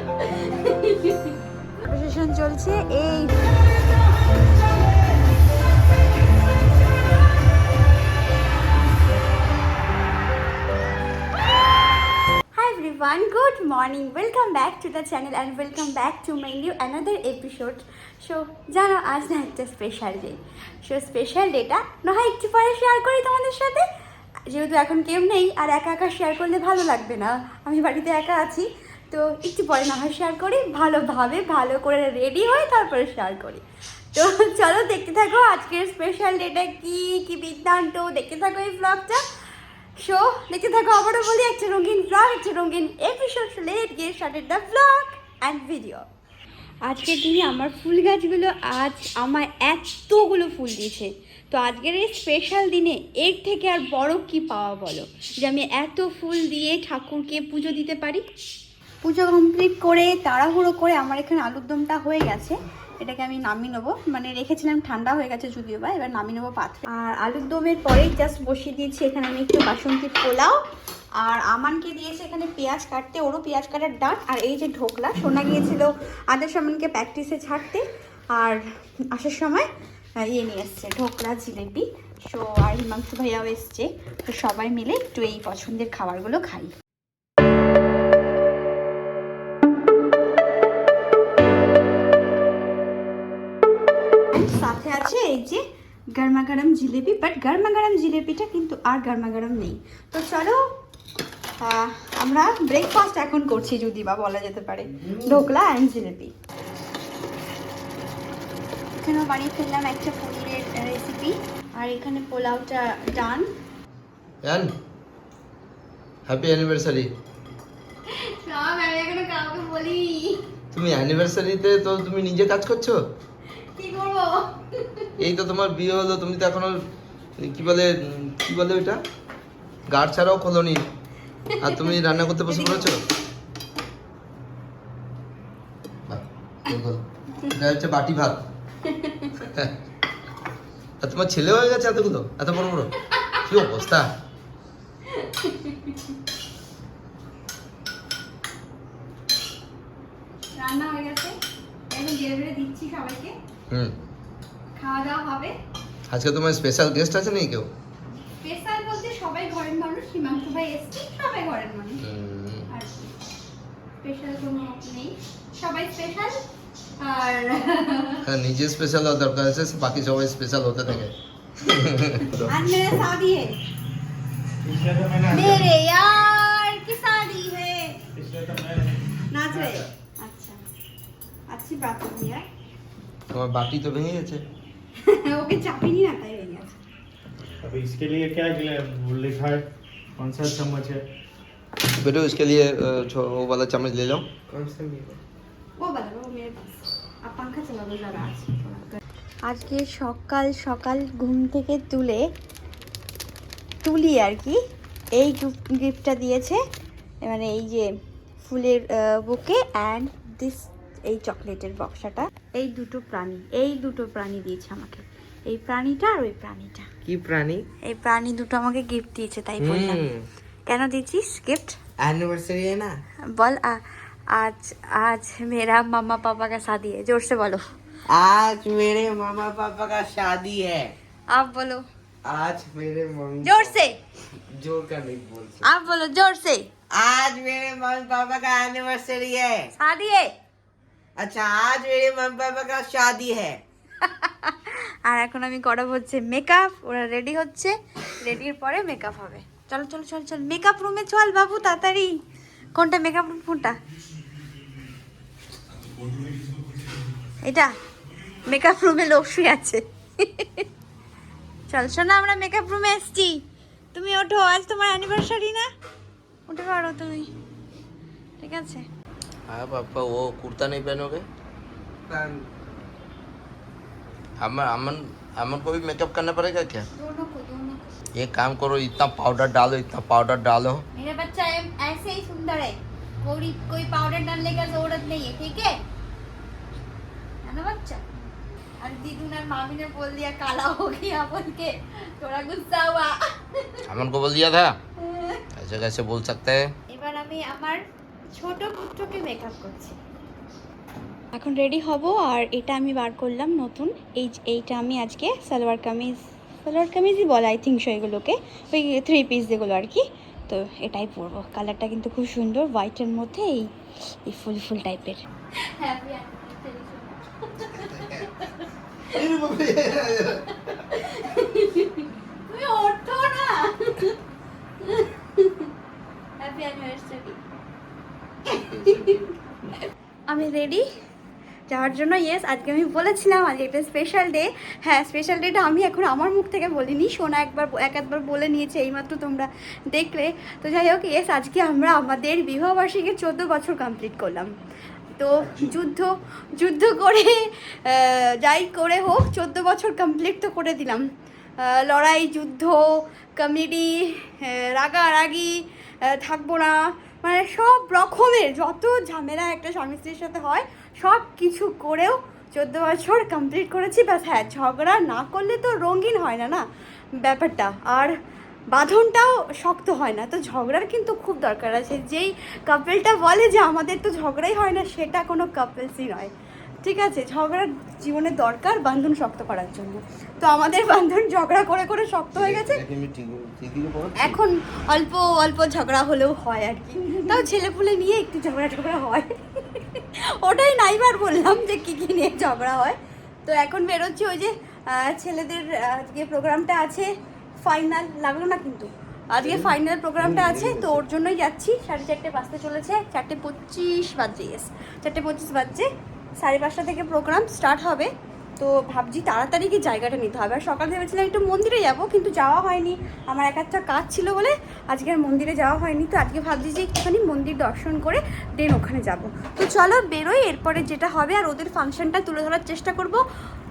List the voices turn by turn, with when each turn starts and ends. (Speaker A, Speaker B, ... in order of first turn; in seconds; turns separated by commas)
Speaker A: 0.2-3.5, Speaker A: 12.5-23.9, Speaker A: 24.5-33.6, Speaker A: 34.1-39.2, Speaker A: 40.0-46.0, Speaker A: 46.8-58.2, Speaker A: 59.0-70.6, Speaker A: 71.2-79.7, Speaker A: 80.2-86.7, Speaker A: 94.3-95.6, Speaker A: 96.1-100.6, Speaker A: 101.6-106.3, Speaker A: 109.0-113.5, Speaker B: 114.4-114.7, Speaker B: 116.3-117.1, Speaker A: 118.1-120.4, Speaker B: 120.7-123.0, Speaker A: 123.6-125.1, Speaker B: 125.2-126.8, Speaker B: 127.4-129.0, Speaker B: 129.9-130.8, Speaker A: 131.5-132.9, Speaker B: 131.6-133.0, Speaker B: 136.1-138.4, Speaker A: 138.8-139.5, Speaker B: 139.4-139.7, Speaker B: 141.0-142.9, Speaker A: 143.1-143.4, Speaker B: 143.4-144.1, Speaker A: 145.1-146.0, Speaker A: 150.6-151.3, Speaker A: 151.9-153.3, Speaker A: 154.8-155.5, Speaker B: 156.1-157.7, Speaker A: 158.3-162.0, Speaker B: 162.0-162.7, Speaker A: 162.7-163.1, Speaker A: 164.0-166.4, Speaker A: 167.0-168.2, Speaker B: 168.2-172.5, Speaker A: 172.4-173.6, Speaker C: 174.6-175.7, Speaker A: 175.3-178.0, Speaker C: 178.1-179.9, Speaker A: 179.3-180.6, Speaker A: 181.5-182.4, Speaker B: 183.3-184.4, Speaker A: 185.0-186.8, Speaker C: 187.6-189.6, Speaker C: 190.2-191.0, Speaker B: 191.8-194.2, Speaker D: 194.5-195.2, Speaker A: 195.8-202.3, Speaker A: 203.8-204.6, Speaker A: 205.2-206.6, Speaker A: 207.2-207.9, Speaker A: 208.4-216.9, Speaker D: 217.0-217.6, Speaker A: 217.8-220.1, Speaker D: 219.6-220.2, Speaker A: 220.7-221.8, Speaker D: 222.0-223.0, Speaker A: 223.3-223.8, Speaker A: 224.3-227.6, Speaker D: 228.1-230.9, Speaker A: 231.3-231.8, Speaker D: 232.2-233.7, Speaker A: 233.4-234.0, Speaker D: 234.5-235.6, Speaker A: 235.6-236.7, Speaker D: 236.9-239.7, Speaker A: 239.7-240.3, Speaker D: 241.2-243.6, Speaker A: 244.0-252.1, Speaker A: 252.8-253.8, Speaker A: 257.4-257.7, Speaker A: 258.4-260.7, Speaker A: 261.7-263.4, Speaker A: 263.9-265.7, Speaker A: 266.5-267.3, Speaker A: 268.4-268.9, Speaker B: 269.5-271.2, Speaker D: 272.1-272.5, Speaker B: 274.4-276.9, Speaker A: 276.9-277.9, Speaker B: 278.2-280.8, Speaker A: 280.9-285.8, Speaker A: 287.4-288.1, Speaker A: 288.8-293.8, Speaker B: 293.9-294.8, Speaker A: 295.0-295.4, Speaker B: 295.6-296.7, Speaker A: 296.9-297.8, Speaker A: 298.4-300.0, Speaker A: 301.3-313.7, Speaker A: 314.2-319.2, Speaker B: 319.1-320.5, Speaker A: 320.7-324.2, Speaker A: 324.8-325.7, Speaker A: 326.4-327.4, Speaker A: 328.5-329.2, Speaker B: 328.6-329.2, Speaker A: 330.3-330.8, Speaker A: 331.7-344.5, Speaker A: 345.1-351.0, Speaker A: 351.6-366.6, Speaker A: 367.2-368.1, Speaker A: 368.7-376.3, Speaker A: 376.8-382.8, Speaker B: 382.4-384.4, Speaker A: 384.2-397.1, Speaker A: 397.6-423.2, Speaker B: 400.3-400.8